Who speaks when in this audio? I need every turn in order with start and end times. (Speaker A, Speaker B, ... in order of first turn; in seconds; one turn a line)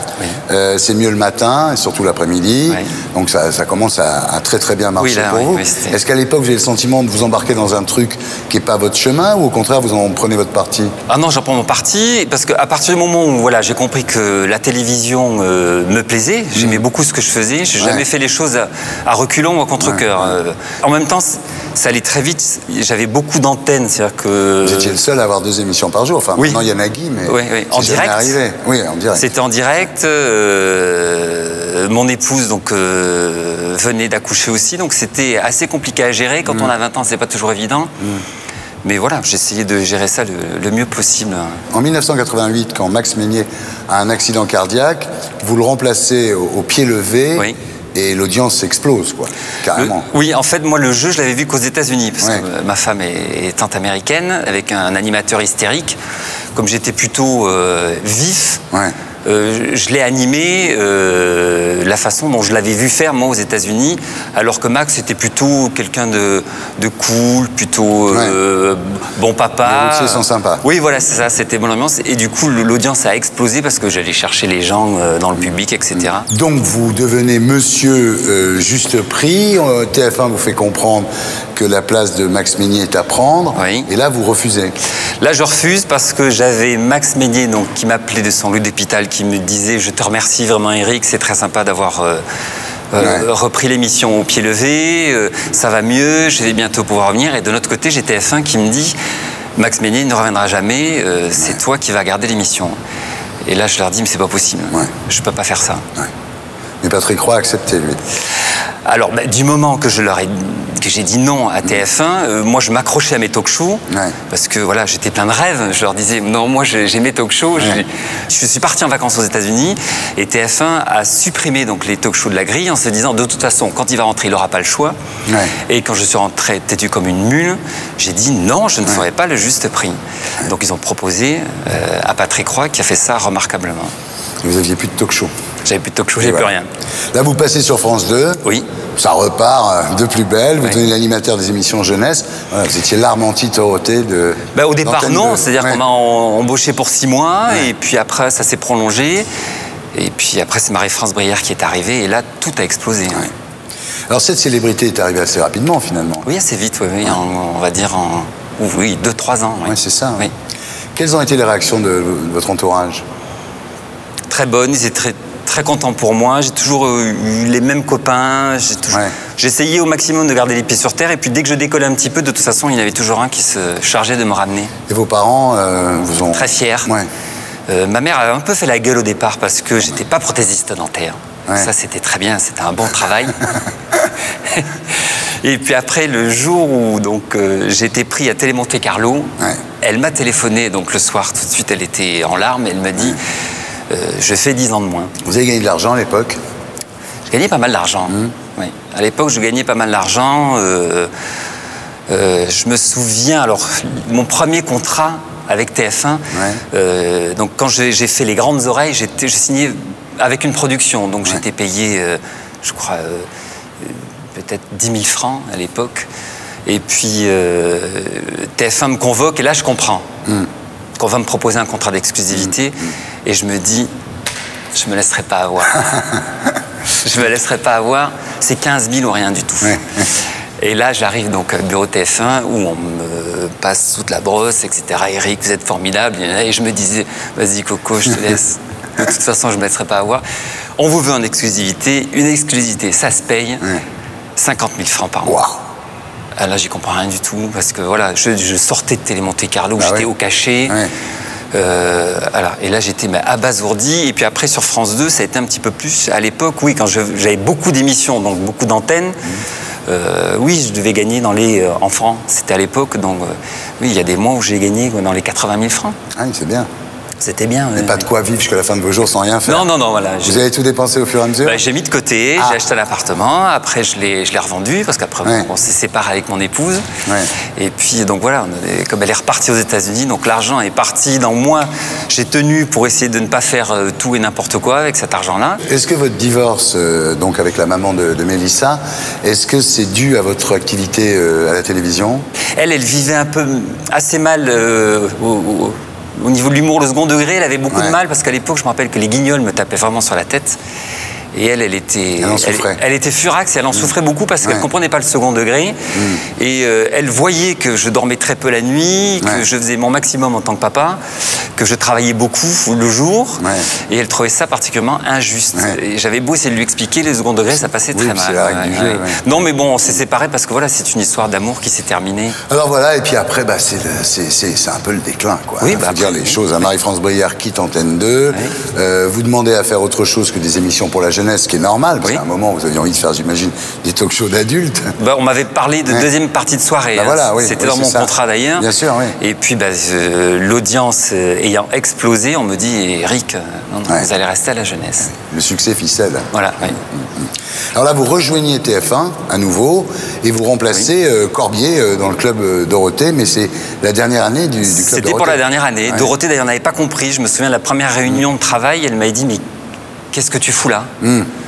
Speaker A: 0.5-10.9
Speaker B: 5.0-6.0
Speaker B: 11.1-25.0
Speaker A: 16.6-16.8
Speaker A: 17.8-18.1
Speaker A: 19.8-20.2
Speaker A: 24.6-29.3
Speaker B: 27.3-28.4
Speaker B: 29.1-37.9
Speaker B: 38.8-41.6
Speaker A: 41.7-50.1
Speaker B: 49.8-56.0
Speaker B: 56.5-58.6
Speaker B: 59.2-76.3
Speaker A: 68.1-68.4
Speaker A: 69.6-70.6
Speaker A: 76.0-84.8
Speaker B: 83.5-83.9
Speaker B: 85.2-92.2
Speaker B: 92.9-99.0
Speaker A: 93.0-93.3
Speaker B: 99.6-102.8
Speaker B: 103.4-105.8
Speaker A: 106.8-108.0
Speaker B: 108.8-125.0
Speaker A: 125.3-125.5
Speaker B: 125.7-133.9
Speaker A: 134.4-135.3
Speaker B: 135.7-136.7
Speaker A: 136.2-136.5
Speaker A: 137.1-138.4
Speaker A: 139.0-145.8
Speaker B: 144.6-149.3
Speaker B: 149.9-153.3
Speaker A: 154.1-156.3
Speaker B: 156.2-160.3
Speaker A: 159.6-160.3
Speaker A: 161.0-163.1
Speaker B: 164.3-174.7
Speaker A: 174.9-177.1
Speaker B: 176.3-176.9
Speaker B: 177.7-183.5
Speaker B: 184.4-184.8
Speaker B: 185.4-193.2
Speaker B: 193.9-195.1
Speaker A: 195.2-196.4
Speaker B: 197.3-201.1
Speaker A: 198.1-198.3
Speaker B: 202.1-213.3
Speaker A: 206.3-206.6
Speaker B: 213.8-216.1
Speaker B: 216.7-220.1
Speaker B: 221.0-223.9
Speaker B: 224.7-226.1
Speaker B: 227.0-229.8
Speaker B: 230.6-240.2
Speaker B: 240.8-243.7
Speaker B: 244.4-245.4
Speaker A: 245.3-245.6
Speaker B: 246.4-250.8
Speaker A: 249.8-250.1
Speaker B: 251.5-259.2
Speaker B: 259.9-266.0
Speaker A: 266.2-266.7
Speaker B: 267.2-268.1
Speaker A: 267.8-269.7
Speaker B: 269.5-270.4
Speaker A: 270.2-271.6
Speaker B: 271.4-276.8
Speaker A: 277.1-277.3
Speaker B: 277.6-285.6
Speaker A: 285.6-292.2
Speaker B: 292.6-300.6
Speaker A: 297.7-298.0
Speaker B: 301.3-305.8
Speaker A: 302.2-302.8
Speaker A: 305.9-306.2
Speaker B: 306.4-311.0
Speaker B: 311.6-322.4
Speaker A: 313.4-313.7
Speaker A: 317.9-319.5
Speaker A: 322.5-334.9
Speaker B: 325.6-326.5
Speaker B: 335.0-338.7
Speaker A: 336.9-339.1
Speaker B: 339.2-345.1
Speaker A: 345.1-346.2
Speaker B: 346.3-346.8
Speaker A: 347.0-356.1
Speaker B: 354.6-359.4
Speaker B: 360.1-360.9
Speaker A: 361.0-361.3